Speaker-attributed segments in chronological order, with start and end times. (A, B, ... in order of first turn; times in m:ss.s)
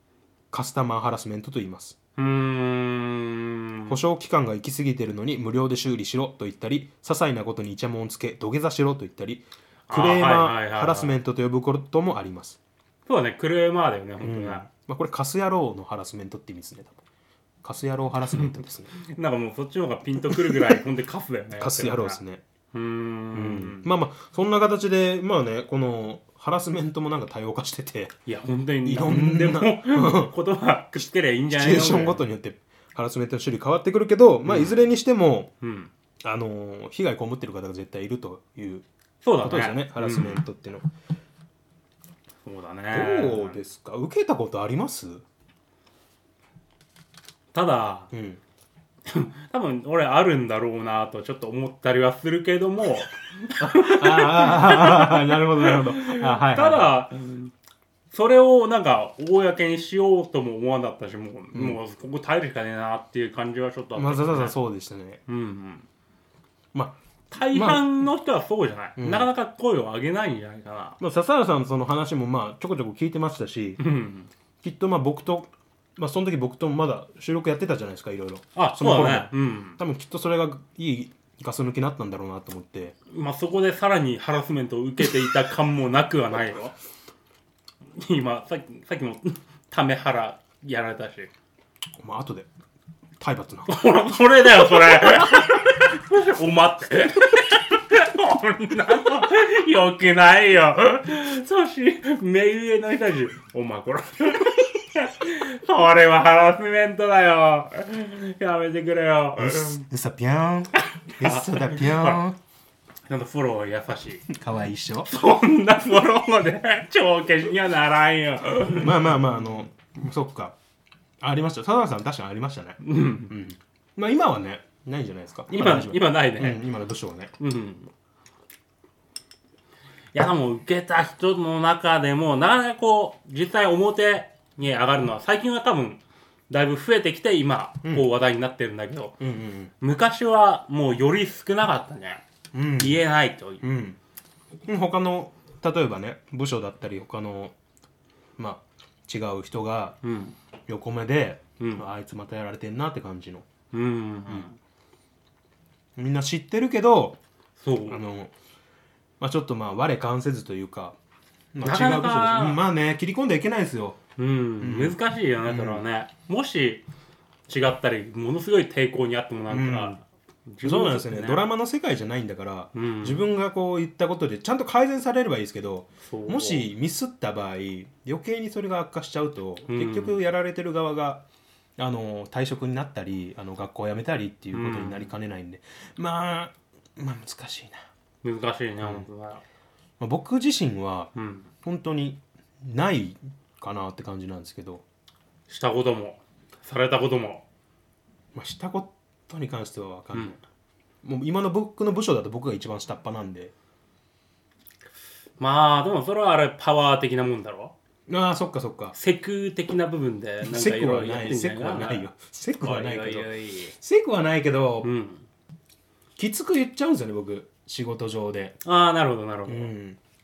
0:00.5-0:02.0 A
0:02.2-0:04.0 B
0:03.9-0:12.6 A
0:09.9-0:11.2 B
0:13.0-0:14.6 B
0:14.2-0:17.0 A
0:17.6-0:18.9 A
0:18.4-0:22.2 B
0:21.6-0:22.4 A
0:22.7-0:23.9 B
0:23.3-0:28.1 A
0:28.2-0:32.2 B
0:28.8-0:30.4 A
0:31.5-0:35.5 A
0:34.4-0:34.8 B
0:35.6-0:35.9 B
0:36.2-0:38.8 A
0:39.2-0:40.4 B
0:39.4-0:40.9 A
0:42.4-0:43.6 B
0:42.9-0:45.2 A
0:47.5-0:48.1 B
0:48.1-0:48.4 A
0:49.0-0:57.5 B
0:53.6-0:57.0 A
0:58.1-1:04.6 B
1:01.5-1:01.8 A
1:04.0-1:05.2 A
1:05.3-1:05.9 B
1:07.3-1:11.0 B
1:07.5-1:07.9 A
1:09.0-1:09.3 A
1:11.0-1:13.8 A
1:13.8-1:14.3 B
1:14.6-1:23.0 A
1:18.5-1:19.8 B
1:23.1-1:26.8 B
1:28.0-1:31.3 B
1:32.0-1:32.5 A
1:33.2-1:33.8 A
1:33.7-1:49.8 B
1:49.4-1:52.4 A
1:50.9-1:52.2 B
1:53.1-1:54.2 B
1:54.3-1:55.1 A
1:55.1-1:59.2 B
1:58.7-2:00.6 A
2:01.2-2:07.3 A
2:02.8-2:03.3 B
2:05.5-2:06.6 B
2:07.4-2:07.9 B
2:10.1-2:19.2 B
2:19.2-2:19.7 A
2:19.8-2:22.2 B
2:22.5-2:23.0 A
2:22.8-2:23.6 B
2:23.6-2:24.0 A
2:24.7-2:27.5 A
2:28.4-2:30.0 A
2:30.0-2:30.4 B
2:30.7-2:33.5 A
2:31.6-2:31.8 B
2:33.7-2:34.6 B
2:36.0-2:37.2 A
2:37.6-2:38.0 B
2:37.9-2:38.3 A
2:39.2-2:41.0 A
2:41.5-2:44.0 A
2:41.6-2:42.6 B
2:44.2-2:46.8 B
2:44.6-2:45.8 A
2:47.5-2:51.4 B
2:49.5-2:50.0 A
2:50.6-3:01.2 A
2:52.7-2:53.2 B
2:56.0-2:56.7 B
2:59.7-3:00.2 B
3:01.8-3:07.8 A
3:04.5-3:05.1 B
3:08.2-3:09.4 B
3:10.0-3:14.8 A
3:11.1-3:11.5 B
3:15.5-3:17.4 B
3:18.3-3:20.4 A
3:21.0-3:23.5 A
3:25.4-3:27.8 B
3:28.1-3:29.0 A
3:29.0-3:32.1 B
3:30.4-3:34.9 A
3:32.6-3:33.8 B
3:34.8-3:35.2 B
3:36.2-3:38.6 A
3:38.6-3:39.7 B
3:39.5-3:40.0 A